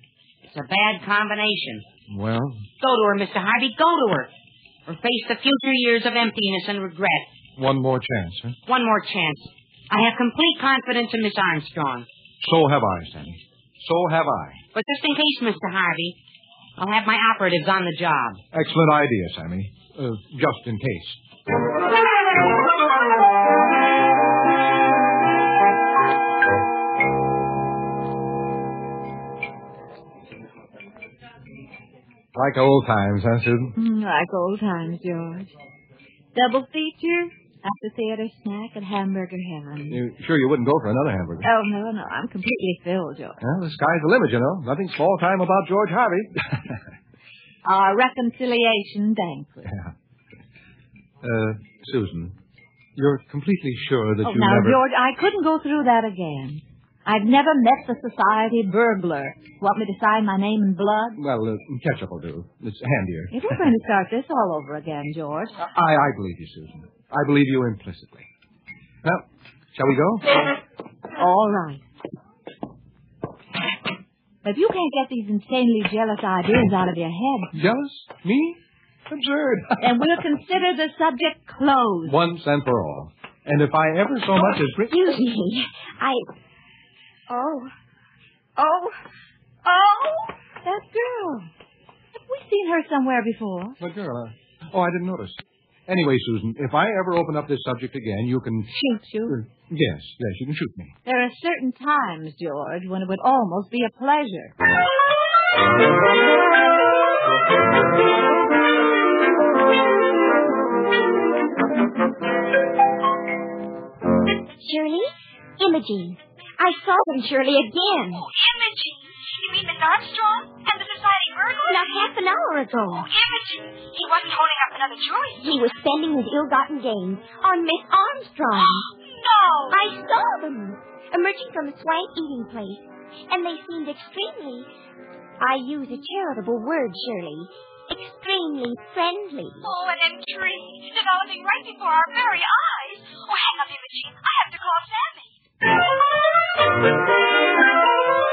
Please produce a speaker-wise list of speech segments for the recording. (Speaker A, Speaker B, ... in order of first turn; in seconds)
Speaker A: 0.5-1.8, 2.8-4.3, 4.9-7.3, 8.7-12.1, 14.7-16.2, 16.8-18.4
Speaker B: 2.1-2.7, 7.6-8.6, 12.4-14.6, 18.5-21.2, 32.3-33.8, 39.9-41.5, 43.4-46.8, 51.2-52.4, 53.0-54.8, 61.1-63.7, 65.6-68.3, 69.0-70.4, 77.5-80.0, 82.0-85.0, 93.8-98.8, 99.3-100.9
Speaker C: 33.8-35.5, 36.4-40.0, 41.4-43.4, 47.6-49.8, 54.2-61.2, 63.3-65.6, 71.2-71.8, 74.4-77.5, 79.8-82.2, 90.6-91.5, 92.2-93.8, 98.7-99.4, 101.0-104.5
Speaker D: 84.4-86.3, 87.3-87.7, 88.6-89.0, 89.6-90.3, 114.6-118.2, 121.7-123.1, 125.4-128.9, 129.7-134.7, 135.4-139.6
Speaker E: 118.1-122.1, 122.9-125.6, 128.6-129.8, 139.6-145.4